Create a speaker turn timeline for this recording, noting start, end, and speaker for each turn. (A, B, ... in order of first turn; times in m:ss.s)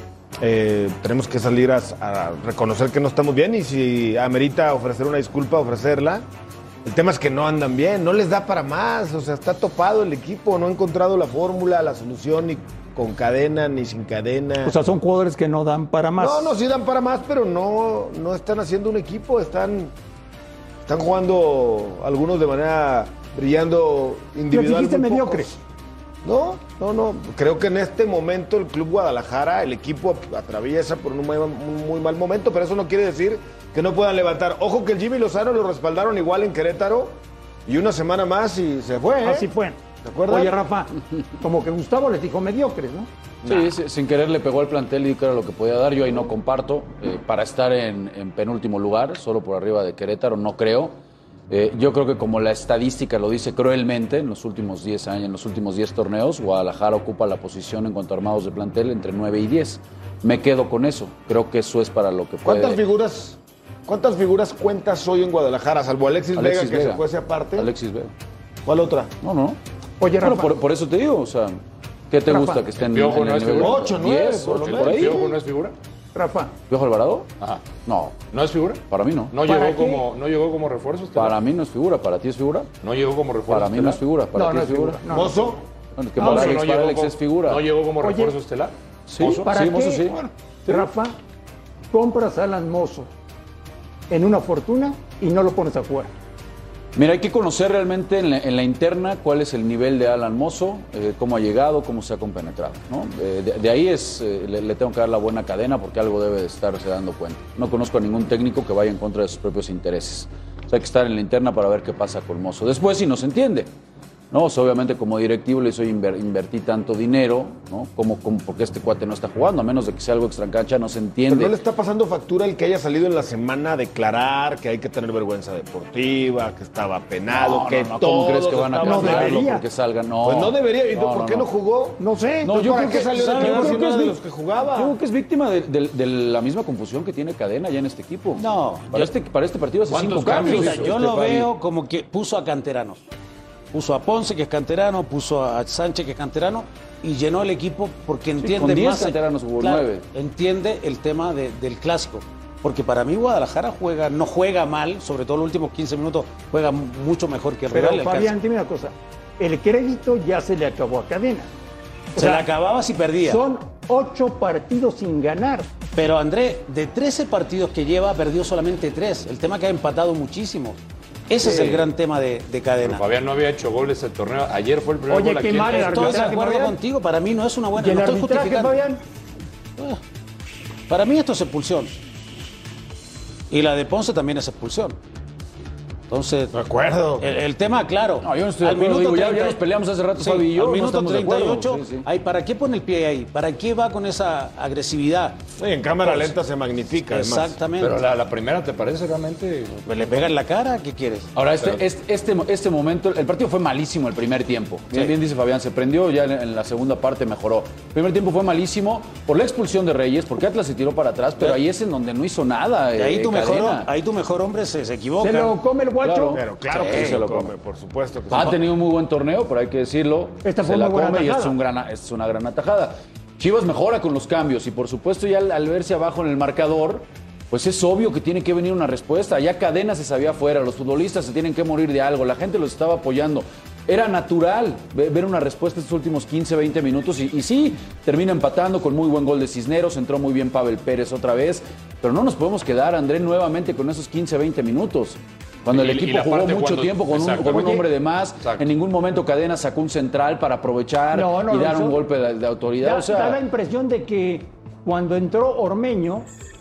0:00.4-0:06.2 A
0:06.8-0:14.7 A
0:14.6-0:16.5 B
0:16.2-0:19.9 A
0:20.9-0:25.6 A
0:24.5-0:25.5 B
0:26.2-0:39.5 A
0:39.2-0:43.1 B
0:40.0-0:40.6 A
0:43.4-0:43.7 A
0:43.4-0:51.0 C
0:51.5-1:02.8 C
1:02.4-1:07.7 A
1:06.3-1:07.0 C
1:07.5-1:08.1 C
1:08.6-1:09.1 A
1:09.2-1:09.6 C
1:10.0-1:10.5 B
1:10.2-1:15.3 C
1:12.3-1:12.6 B
1:12.8-1:14.0 D
1:13.6-1:15.4 A
1:14.6-1:15.7 D
1:16.1-1:16.5 B
1:16.7-1:17.3 C
1:17.8-1:18.2 C
1:18.3-1:21.4 D
1:18.9-1:19.3 C
1:19.4-1:20.0 B
1:21.1-1:22.7 C
1:22.8-1:24.0 D
1:23.5-1:25.0 C
1:24.3-1:25.5 B
1:25.1-1:25.6 A
1:26.0-1:27.6 C
1:26.2-1:26.6 B
1:26.2-1:29.5 D
1:28.0-1:28.3 B
1:29.1-1:30.2 C
1:29.4-1:31.1 B
1:31.9-1:33.1 B
1:34.1-1:36.1 B
1:36.9-1:53.7 C
1:54.3-2:01.5 C
2:01.3-2:09.5 A
2:07.3-2:11.5 C
2:08.8-2:09.6 B
2:10.2-2:12.0 A
2:12.0-2:14.0 B
2:12.4-2:13.8 C
2:12.5-2:14.9 A
2:12.9-2:13.9 E
2:14.6-2:21.5 C
2:18.4-2:19.1 E
2:19.9-2:21.0 D
2:20.3-2:23.0 E
2:23.7-2:38.3 E
2:28.4-2:30.0 C
2:37.7-2:41.5 B
2:42.2-2:42.5 B
2:42.2-2:43.4 E
2:43.2-2:45.7 B
2:46.0-2:53.0 E
2:51.4-2:51.9 D
2:52.8-2:56.3 D
2:55.1-2:56.8 B
2:55.6-2:58.8 E
2:57.8-2:59.0 B
3:00.9-3:02.0 E
3:03.5-3:05.0 E
3:06.1-3:06.5 E
3:06.5-3:07.3 A
3:07.2-3:09.6 E
3:08.2-3:12.0 C
3:10.1-3:15.4 E
3:15.6-3:17.6 A
3:16.0-3:16.3 E
3:17.1-3:18.0 E
3:17.8-3:19.8 D
3:19.8-3:21.3 E
3:21.3-3:33.9 C
3:32.9-3:35.6 E
3:35.2-3:36.4 B
3:36.0-3:37.5 C
3:36.3-3:38.6 A
3:36.7-3:37.2 E
3:38.3-4:13.4 C
3:40.4-3:41.5 B
4:05.7-4:07.9 D
4:08.4-4:08.6 D
4:11.1-4:12.0 B
4:12.8-4:16.3 B